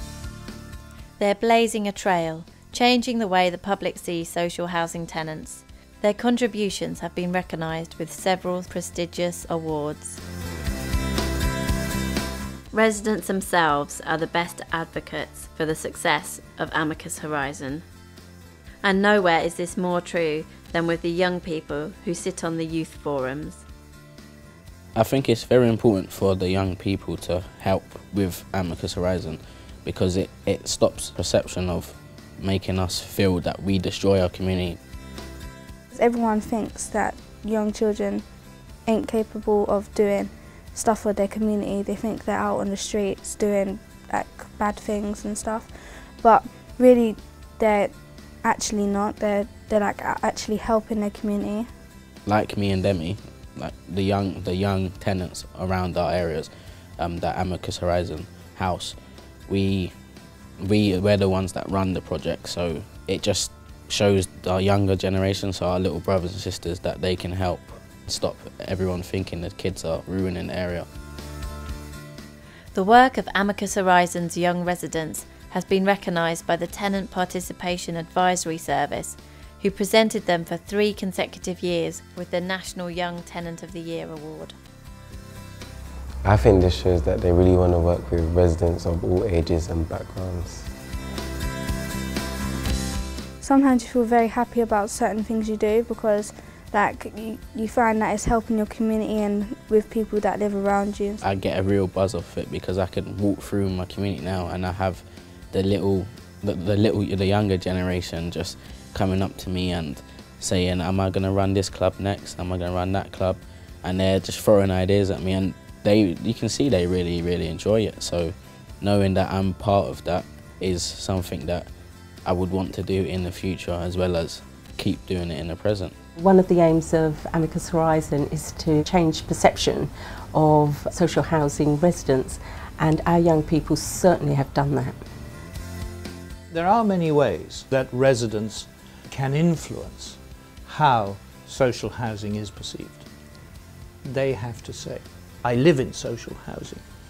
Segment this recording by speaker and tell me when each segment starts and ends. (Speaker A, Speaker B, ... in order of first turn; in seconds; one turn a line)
Speaker A: 1.2-10.2
Speaker A: 12.7-17.8
Speaker A: 18.8-23.6
Speaker B: 24.9-34.8
Speaker C: 35.9-38.2
Speaker C: 38.9-51.7
Speaker B: 52.3-60.0
Speaker B: 60.6-70.9
Speaker A: 72.7-84.6
Speaker D: 86.2-90.7
Speaker C: 93.4-101.2
Speaker B: 101.2-121.7
Speaker B: 122.2-126.0
Speaker E: 126.3-128.4
Speaker E: 134.0-134.3
Speaker F: 136.5-143.1
Speaker F: 144.0-146.9